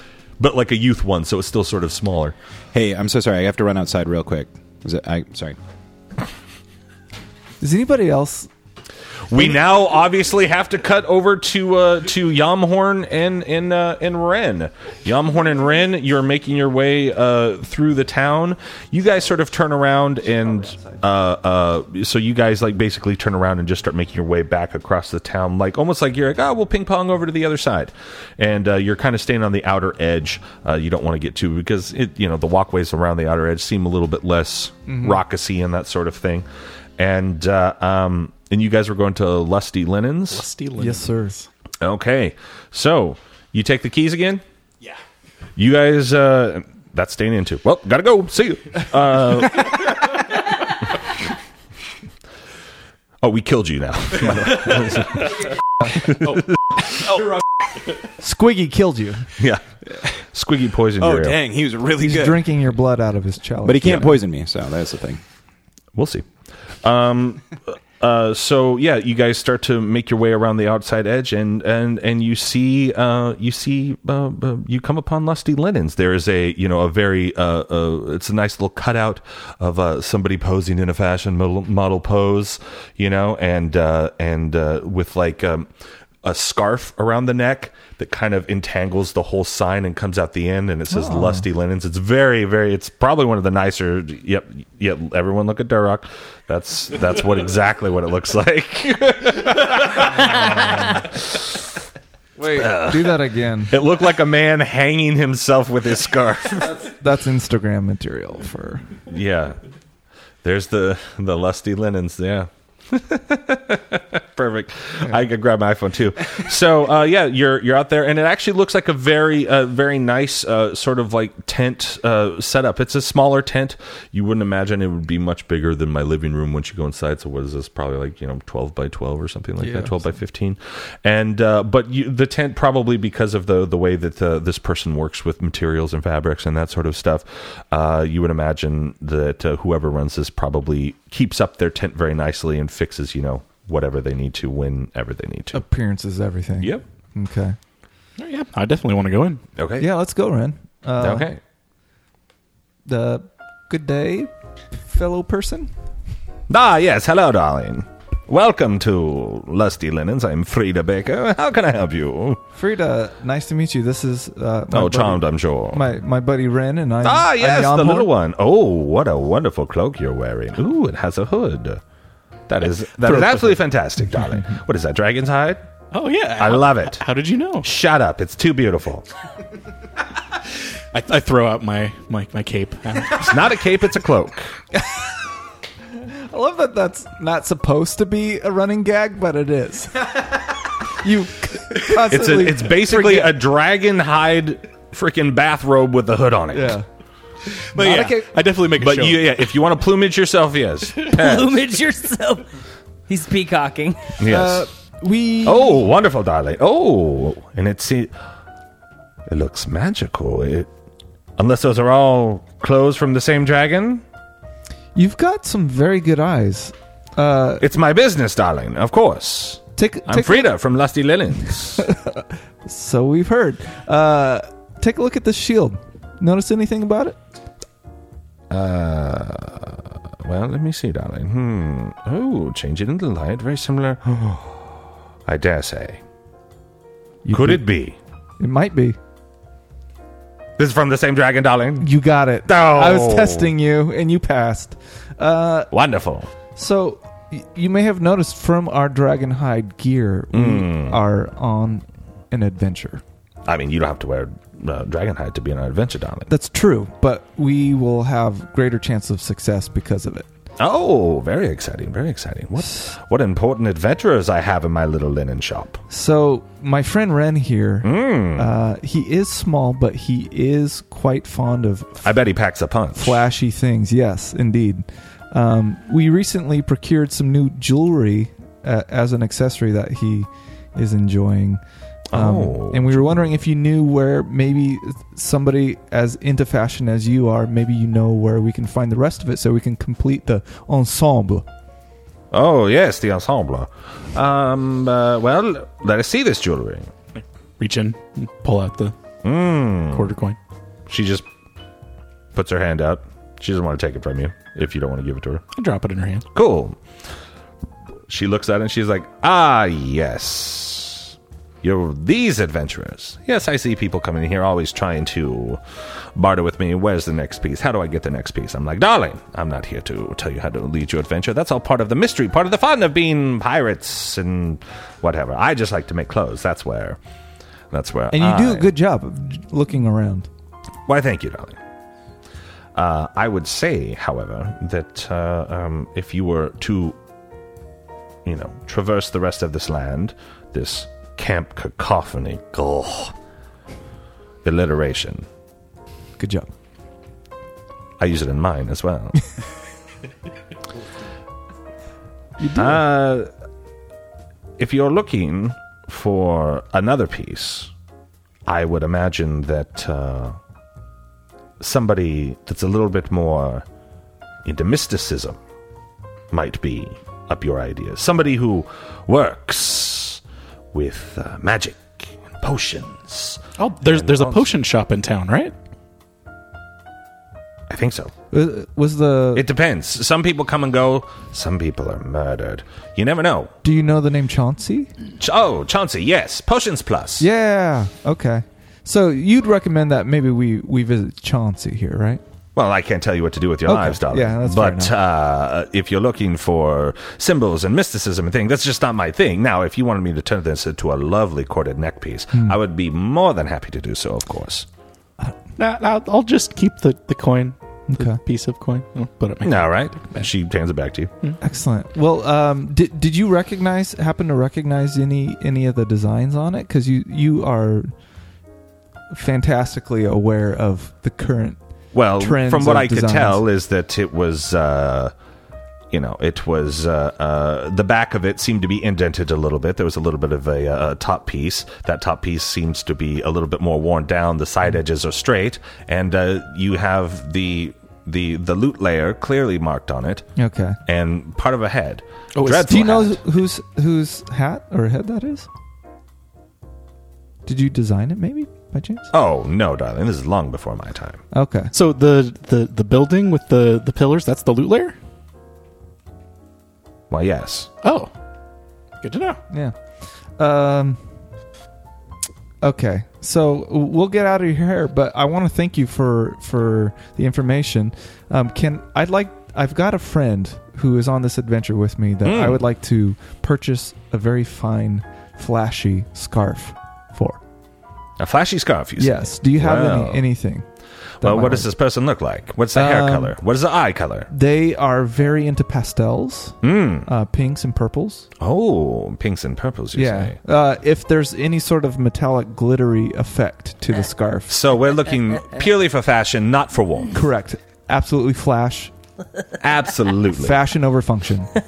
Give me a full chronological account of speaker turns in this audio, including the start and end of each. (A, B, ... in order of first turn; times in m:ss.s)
0:00.4-0:02.3 A
0:02.7-0:05.6 B
0:07.6-0:08.5 C
0:09.3-0:36.4 A
0:34.9-0:35.2 C
0:37.0-0:40.5 A
0:40.3-0:41.1 D
0:40.8-0:41.5 C
0:41.8-0:44.4 A
0:45.6-0:49.9 A
0:53.2-0:56.1 A
0:58.2-0:59.3 C
0:59.4-0:59.6 A
1:00.3-1:01.4 A
1:01.0-1:02.5 B
1:02.0-1:04.1 C
1:03.6-1:05.2 B
1:03.8-1:04.1 A
1:06.0-1:06.3 A
1:06.8-1:25.7 A
1:26.2-1:41.5 A
1:30.9-1:31.4 C
1:42.4-1:43.7 C
1:42.5-1:46.8 A
1:46.7-1:48.9 C
1:49.1-1:49.6 A
1:50.4-2:25.6 A
2:09.6-2:10.0 C
2:25.5-2:27.6 C
2:28.2-2:29.4 D
2:29.6-2:29.9 A
2:29.8-2:31.3 C
2:31.0-2:31.4 A
2:32.9-2:34.3 C
2:34.9-2:35.7 C
2:36.5-2:42.4 A
2:42.6-2:48.1 C
2:44.7-2:45.8 A
2:47.0-2:51.8 A
2:52.5-2:55.6 A
2:53.0-2:53.6 D
2:55.9-2:57.7 D
2:56.4-2:57.0 A
2:57.6-2:59.0 A
3:00.9-3:03.4 D
3:03.2-3:04.5 A
3:06.3-3:13.4 C
3:12.0-3:16.8 A
3:16.5-3:16.9 C
3:17.7-3:19.3 D
3:17.7-3:18.3 C
3:18.7-3:21.6 A
3:21.1-3:22.4 E
3:23.1-3:24.1 E
3:24.2-3:24.7 A
3:24.2-3:25.8 C
3:25.4-3:28.1 A
3:29.3-3:30.7 A
3:31.4-3:34.0 A
3:35.0-3:37.7 C
3:37.6-3:41.8 A
3:39.8-3:40.5 C
3:41.8-3:47.2 C
3:48.5-3:54.6 A
3:55.3-3:56.0 A
3:57.2-3:57.7 C
3:57.3-3:58.0 A
3:58.4-3:59.0 C
4:00.6-4:01.9 A
4:01.8-4:05.7 C
4:02.4-4:03.5 A
4:05.7-4:06.3 A
4:06.6-4:13.0 C
4:10.3-4:11.0 A
4:13.4-4:16.3 A
4:16.3-4:20.3 C
4:20.6-4:25.8 A
4:22.6-4:22.9 C
4:25.9-4:32.1 C
4:27.8-4:28.5 A
4:32.0-4:33.2 A
4:33.0-4:41.6 C
4:42.1-4:43.4 A
4:42.1-4:51.4 C
4:52.3-4:56.9 A
4:57.6-4:58.9 D
4:59.2-5:00.1 A
4:59.9-5:00.4 D
5:00.9-5:01.3 A
5:02.3-5:05.4 A
5:05.5-5:06.2 D
5:06.3-5:06.8 A
5:08.1-5:15.6 A
5:16.1-5:27.0 A
5:27.7-5:28.7 A
5:28.1-5:30.3 C
5:30.9-5:31.6 A
5:32.7-5:37.0 A
5:38.2-5:43.1 A
5:44.4-5:45.3 A
5:46.2-5:46.5 C
5:48.0-5:49.2 A
5:52.4-5:52.8 C
5:52.6-5:53.3 A
5:54.6-5:57.7 A
5:58.5-6:00.4 A
6:01.6-6:03.6 A
6:04.4-6:05.4 A
6:06.3-6:10.2 A
6:10.7-6:14.5 A
6:13.6-6:15.5 D
6:17.7-6:18.1 A
6:18.3-6:19.4 C
6:19.3-6:23.5 A
6:23.6-6:24.9 C
6:25.2-6:27.2 A
6:27.2-6:32.2 C
6:32.6-6:44.7 A
6:33.7-6:34.9 C
6:45.6-6:50.3 D
6:47.9-6:48.2 C
6:49.4-6:51.1 A
6:51.4-6:57.9 C
6:59.1-7:01.6 C
7:01.9-7:05.1 A
7:02.2-7:03.4 C
7:05.9-7:20.3 A
7:20.4-7:20.8 C
7:20.9-7:23.2 A
7:22.3-7:22.7 D
7:22.6-7:25.5 C
7:27.4-7:29.1 C
7:29.1-7:31.2 A
7:31.3-7:31.7 C
7:31.7-7:35.0 D
7:37.1-7:37.7 A
7:37.8-7:38.1 D
7:39.0-7:39.4 D
7:39.5-7:39.7 C
7:40.4-7:41.0 C
7:42.6-7:57.4 C
7:52.2-7:52.6 A
7:58.2-8:00.2 A
7:59.0-8:00.7 C
8:01.2-8:01.7 C
8:01.2-8:04.3 A
8:02.7-8:03.4 C
8:04.3-8:08.3 C
8:06.6-8:07.1 A
8:08.4-8:10.4 A
8:10.0-8:14.6 C
8:14.5-8:17.2 A
8:17.1-8:18.9 C
8:19.6-8:20.6 A
8:20.3-8:21.5 C